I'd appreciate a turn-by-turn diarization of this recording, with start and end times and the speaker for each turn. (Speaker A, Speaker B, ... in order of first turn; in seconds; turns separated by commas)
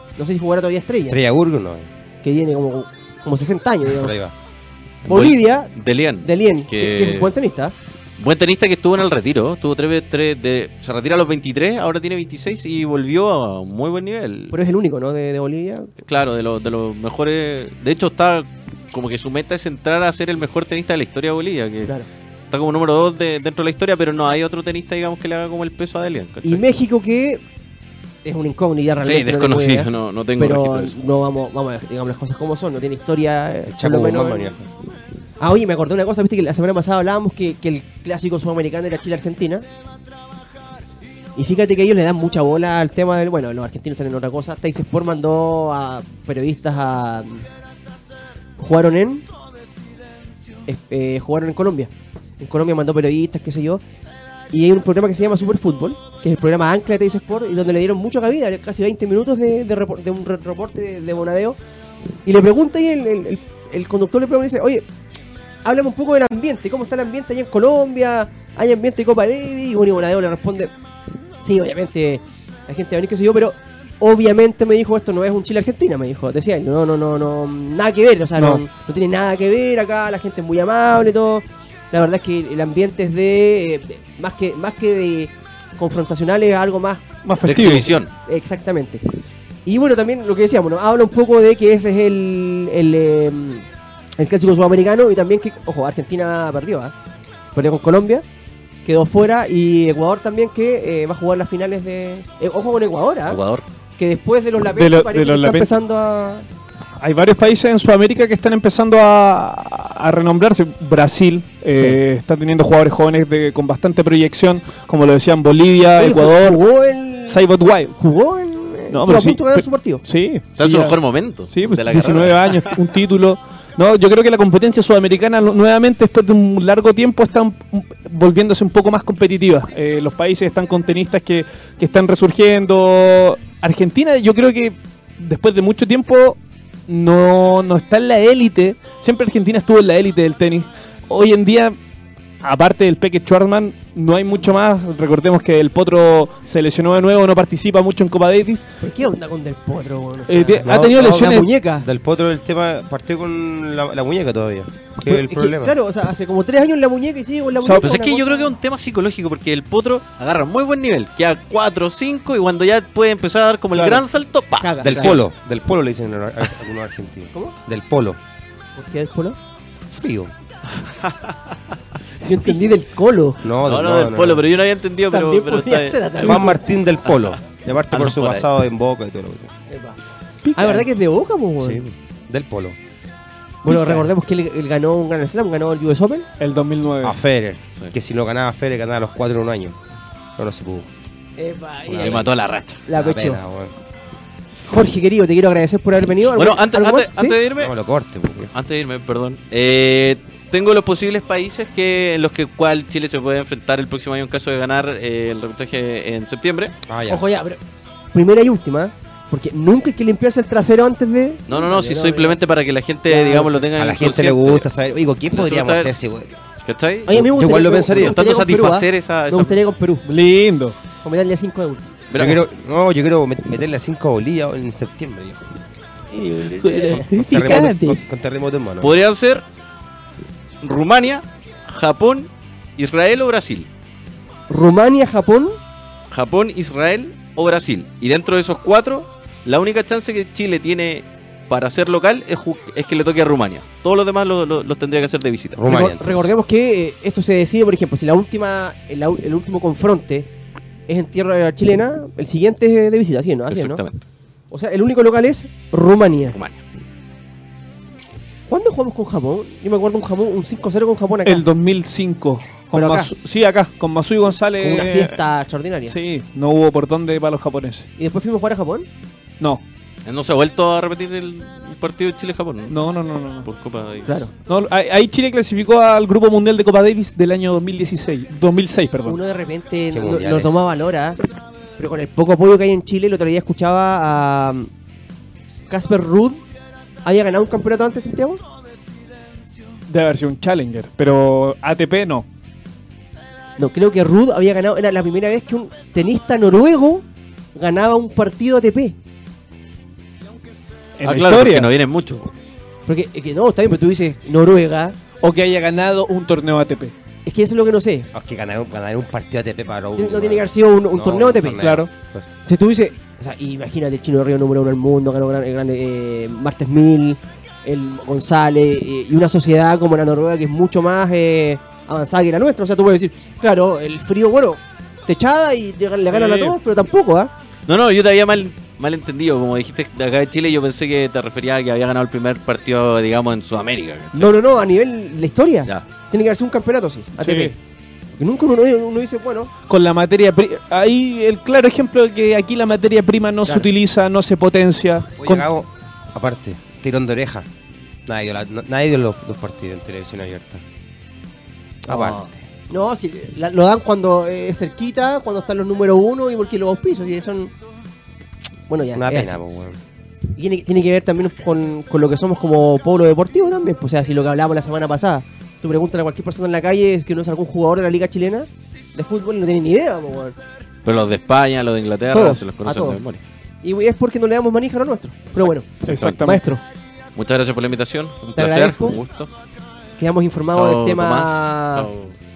Speaker A: 0.2-1.2, Speaker B: 1.1-1.9, Speaker A: 2.2-4.1, Speaker B: 3.9-4.3, Speaker C: 5.0-7.3, Speaker A: 5.1-5.7, Speaker A: 6.2-7.7, Speaker C: 8.2-14.5, Speaker A: 14.5-15.9, Speaker C: 16.0-21.9, Speaker C: 22.5-26.6, Speaker A: 26.4-27.4, Speaker A: 28.2-34.5, Speaker C: 29.0-30.9, Speaker B: 33.7-34.7, Speaker A: 35.4-39.6, Speaker A: 41.4-47.4, Speaker A: 48.6-49.2, Speaker A: 50.7-53.8, Speaker A: 54.5-61.6, Speaker A: 62.2-64.8, Speaker A: 65.6-70.7, Speaker A: 71.4-87.0, Speaker D: 87.2-87.9, Speaker C: 87.4-88.1, Speaker A: 88.2-89.0, Speaker A: 89.7-93.7, Speaker A: 94.2-96.9, Speaker A: 97.5-98.2, Speaker A: 98.8-103.4, Speaker C: 103.3-103.6, Speaker A: 104.0-106.5, Speaker D: 104.7-105.7, Speaker D: 107.0-116.6, Speaker A: 116.0-117.4, Speaker D: 117.3-117.9, Speaker A: 118.0-120.0, Speaker D: 118.9-141.8, Speaker C: 120.6-122.7, Speaker D: 142.4-148.7, Speaker A: 148.8-151.8, Speaker D: 150.3-151.5, Speaker B: 150.6-155.7, Speaker A: 155.1-158.5, Speaker D: 157.6-157.9, Speaker C: 157.8-165.2, Speaker A: 163.7-164.0, Speaker A: 164.6-165.2, Speaker B: 164.8-168.2, Speaker A: 168.8-169.4, Speaker B: 169.9-170.3, Speaker C: 170.9-171.3, Speaker A: 172.2-173.4, Speaker B: 173.4-174.4, Speaker C: 173.6-176.4, Speaker A: 175.1-176.6, Speaker B: 176.2-179.5, Speaker C: 177.9-178.5, Speaker A: 179.7-180.0, Speaker D: 180.4-180.8, Speaker A: 180.6-181.8, Speaker B: 181.6-182.8, Speaker A: 183.6-186.2, Speaker D: 183.7-184.1, Speaker D: 186.4-187.2, Speaker B: 187.0-189.8, Speaker B: 190.4-190.9, Speaker A: 191.4-192.3, Speaker B: 191.9-192.3, Speaker C: 192.0-192.8, Speaker A: 192.8-193.4, Speaker B: 192.9-193.7, Speaker A: 194.7-197.4, Speaker C: 196.2-197.7, Speaker B: 197.6-198.5, Speaker C: 198.5-206.8, Speaker B: 206.9-207.2, Speaker A: 207.1-207.6, Speaker A: 208.1-212.4, Speaker C: 211.5-214.6, Speaker A: 213.1-213.6, Speaker B: 213.8-216.3, Speaker C: 215.3-215.9, Speaker C: 216.6-217.2, Speaker A: 217.1-220.0, Speaker B: 217.1-218.2, Speaker C: 217.8-219.6, Speaker D: 220.1-220.8, Speaker A: 221.0-221.9, Speaker C: 222.1-222.4, Speaker B: 222.1-225.4, Speaker A: 226.1-228.0, Speaker B: 226.7-228.9, Speaker C: 228.8-229.4, Speaker C: 230.6-233.7, Speaker A: 234.5-235.6, Speaker C: 236.1-245.7, Speaker B: 245.5-246.3, Speaker A: 245.7-250.3, Speaker A: 250.9-253.8, Speaker C: 253.5-254.0, Speaker A: 254.5-256.4, Speaker C: 256.3-256.6, Speaker A: 258.5-261.4, Speaker D: 261.2-265.2, Speaker A: 262.7-263.1, Speaker A: 264.6-265.9, Speaker D: 265.9-267.9, Speaker A: 268.0-268.9, Speaker C: 270.1-272.7, Speaker D: 272.7-273.5, Speaker C: 273.4-274.1, Speaker A: 274.1-274.3, Speaker D: 274.5-279.2, Speaker A: 279.1-281.2, Speaker B: 279.9-280.6, Speaker A: 281.8-284.7, Speaker A: 285.7-286.4, Speaker A: 287.0-288.4, Speaker D: 289.9-292.2, Speaker A: 293.6-298.9, Speaker D: 301.0-301.7, Speaker C: 301.0-302.3, Speaker A: 302.9-305.0, Speaker D: 305.2-306.9, Speaker A: 307.2-308.1, Speaker B: 308.1-312.2, Speaker A: 309.9-311.6, Speaker D: 311.6-311.9, Speaker A: 312.4-327.3, Speaker C: 326.1-326.5, Speaker C: 327.7-334.3, Speaker A: 334.1-337.5, Speaker D: 337.2-337.5, Speaker A: 338.2-339.5, Speaker D: 339.7-345.4, Speaker B: 345.2-347.5, Speaker B: 348.1-350.6, Speaker B: 351.9-352.4, Speaker A: 351.9-357.5, Speaker A: 358.7-359.4, Speaker B: 358.9-359.8, Speaker A: 360.4-370.4, Speaker C: 370.8-373.2, Speaker A: 372.1-373.0, Speaker A: 373.6-376.6, Speaker C: 375.4-376.2, Speaker D: 375.8-376.4, Speaker C: 377.1-379.3, Speaker A: 378.3-379.0, Speaker A: 380.0-381.9, Speaker C: 380.5-382.1